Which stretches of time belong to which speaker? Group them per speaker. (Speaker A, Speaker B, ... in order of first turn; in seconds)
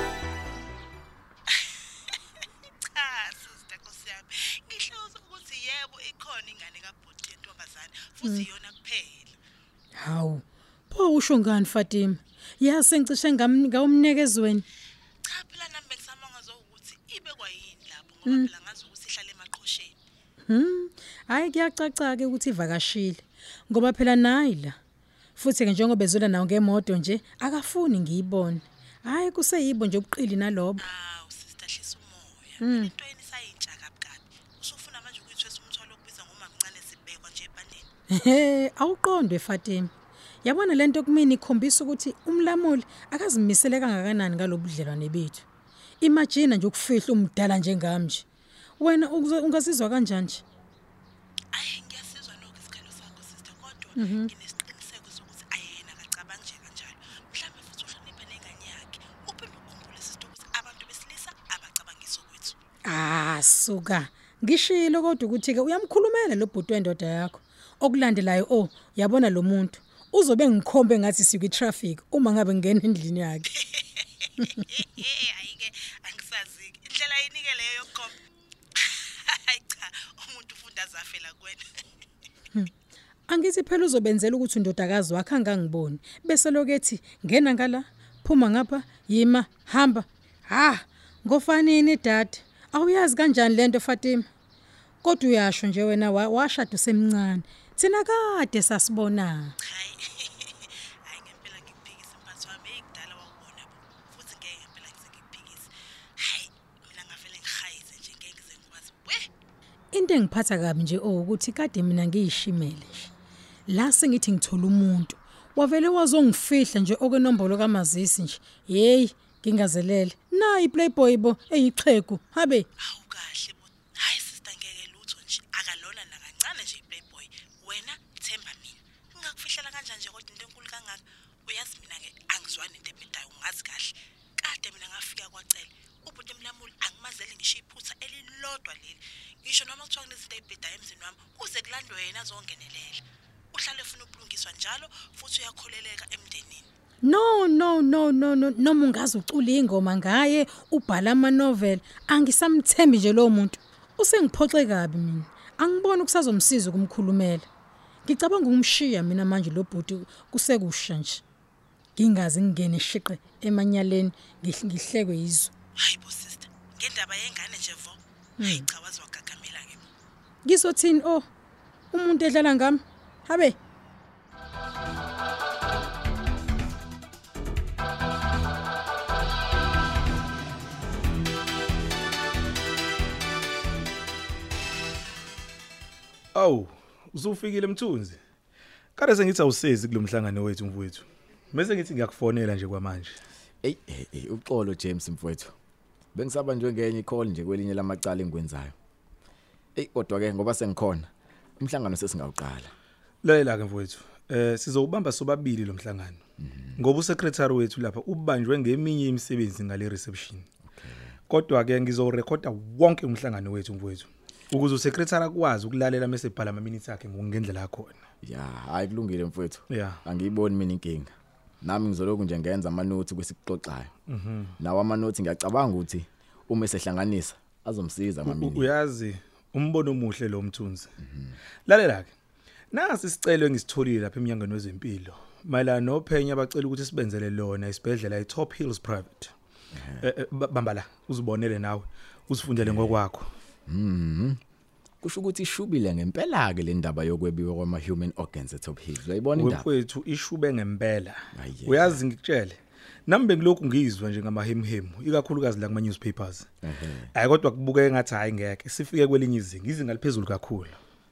Speaker A: 2.9-9.3, 15.2-19.9, 30.8-37.9, 51.5-62.6, 73.7-78.2, 78.8-81.6, 99.7-109.3, 122.8-143.0, 143.5-146.7, 165.8-169.8
Speaker B: 10.0-14.6, 20.5-24.8, 25.4-30.8, 32.6-32.9, 38.1-39.9, 40.4-45.4, 46.0-48.2, 48.8-50.4, 54.0-54.3, 62.9-73.5, 83.3-94.3, 95.0-99.5, 109.9-113.1, 113.7-122.7, 147.0-157.5, 158.0-161.2, 161.9-165.5, 168.4-168.7, 170.4-171.2, 171.9-173.6
Speaker C: 186.3-188.2, 189.0-193.2, 203.2-206.2, 206.8-210.4, 211.3-218.0, 219.7-220.0, 224.1-224.5, 228.2-230.9, 231.7-232.1, 232.7-239.3, 240.0-243.3, 249.3-256.5, 257.1-260.8
Speaker D: 193.6-195.5, 196.1-198.7, 199.8-201.1, 201.6-202.7, 210.7-211.1, 218.2-221.1, 221.6-223.9, 224.6-228.7, 242.6-242.9, 243.7-244.4, 245.0-249.6, 251.3-251.9, 256.6-257.1